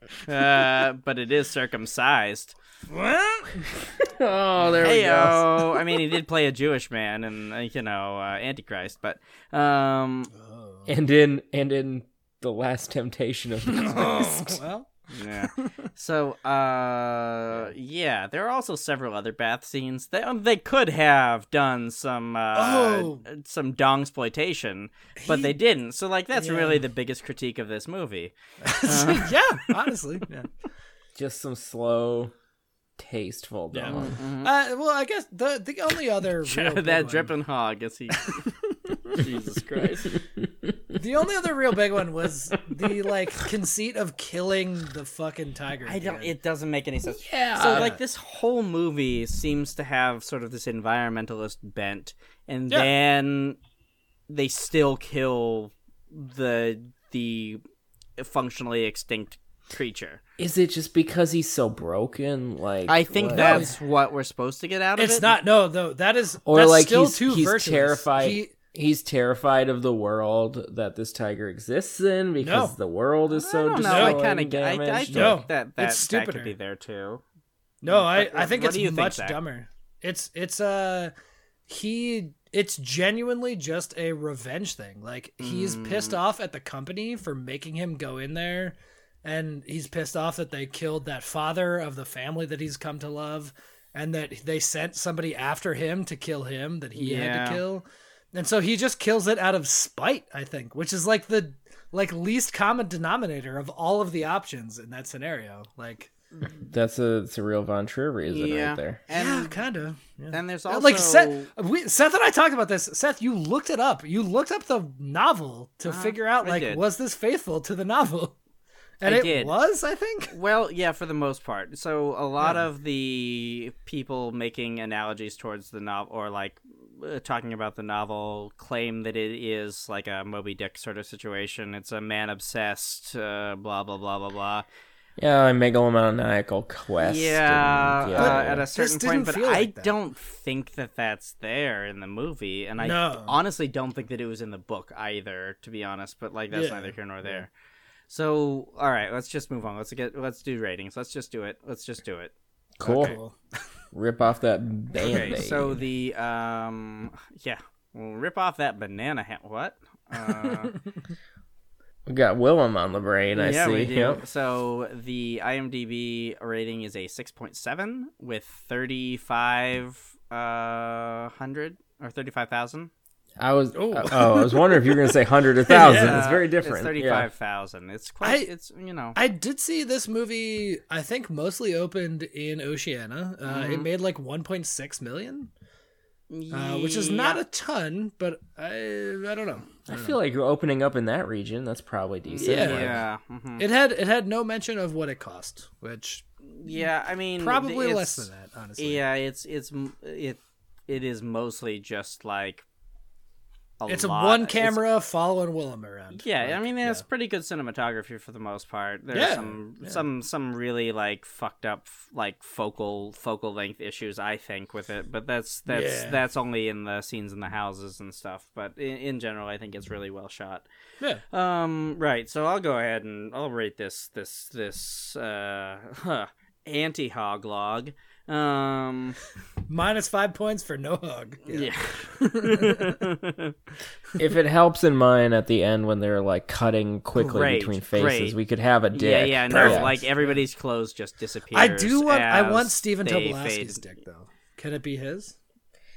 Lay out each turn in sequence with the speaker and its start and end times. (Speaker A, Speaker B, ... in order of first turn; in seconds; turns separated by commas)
Speaker A: 0.3-2.5, Speaker B: 2.9-3.6, Speaker C: 4.0-5.7, Speaker A: 4.8-10.3, Speaker B: 10.3-10.9, Speaker C: 10.8-14.6, Speaker B: 13.7-15.9, Speaker A: 15.1-29.4, Speaker B: 22.5-23.2, Speaker B: 25.2-25.5, Speaker B: 26.3-26.8, Speaker B: 28.6-30.5, Speaker C: 31.1-32.3, Speaker C: 33.0-34.1, Speaker B: 33.7-37.3, Speaker A: 33.9-34.5, Speaker A: 36.4-38.5, Speaker A: 39.1-40.2, Speaker C: 40.4-40.8, Speaker B: 41.0-46.3, Speaker A: 45.9-53.6, Speaker C: 47.1-48.0, Speaker B: 47.6-48.0, Speaker A: 54.3-57.6, Speaker A: 58.2-60.2, Speaker C: 60.4-63.7, Speaker A: 62.9-65.3, Speaker B: 63.3-63.8, Speaker B: 65.0-68.5, Speaker C: 66.5-75.4, Speaker B: 72.4-72.8, Speaker A: 73.3-77.2, Speaker B: 73.8-74.2, Speaker B: 75.1-76.5, Speaker B: 77.8-81.1, Speaker A: 77.8-79.4, Speaker B: 81.7-106.1, Speaker A: 85.4-86.2, Speaker A: 96.9-97.6, Speaker C: 106.7-109.0, Speaker A: 108.3-109.6, Speaker B: 109.1-118.3, Speaker A: 110.3-111.5, Speaker A: 115.8-116.8, Speaker B: 119.0-120.3, Speaker A: 119.0-119.5, Speaker A: 120.3-134.6, Speaker B: 122.4-122.7, Speaker C: 135.2-138.7, Speaker A: 137.0-147.5, Speaker B: 138.2-139.9, Speaker B: 142.8-143.4, Speaker B: 146.5-146.9, Speaker A: 148.1-152.3, Speaker C: 152.8-153.2, Speaker A: 152.8-153.2, Speaker B: 152.8-153.3, Speaker C: 153.9-155.8, Speaker A: 155.0-160.8, Speaker C: 162.1-164.2, Speaker A: 163.3-172.9, Speaker C: 173.4-177.3, Speaker B: 173.7-175.1, Speaker B: 175.7-176.2, Speaker A: 175.8-179.2, Speaker B: 178.2-178.5, Speaker B: 179.1-185.5, Speaker A: 183.4-183.8, Speaker A: 186.3-187.4, Speaker B: 186.5-190.2, Speaker C: 189.9-193.0, Speaker A: 192.3-193.7, Speaker B: 192.4-193.0, Speaker B: 193.6-196.9, Speaker A: 196.5-202.6, Speaker B: 197.4-199.0, Speaker A: 203.8-204.8, Speaker B: 203.9-207.0, Speaker A: 206.2-220.6, Speaker B: 209.1-210.0, Speaker B: 215.7-216.2, Speaker A: 221.3-229.2, Speaker B: 229.7-233.0, Speaker A: 231.5-233.5, Speaker C: 234.2-239.9, Speaker A: 237.2-238.3, Speaker A: 238.9-243.9, Speaker B: 239.5-240.4, Speaker B: 241.5-245.3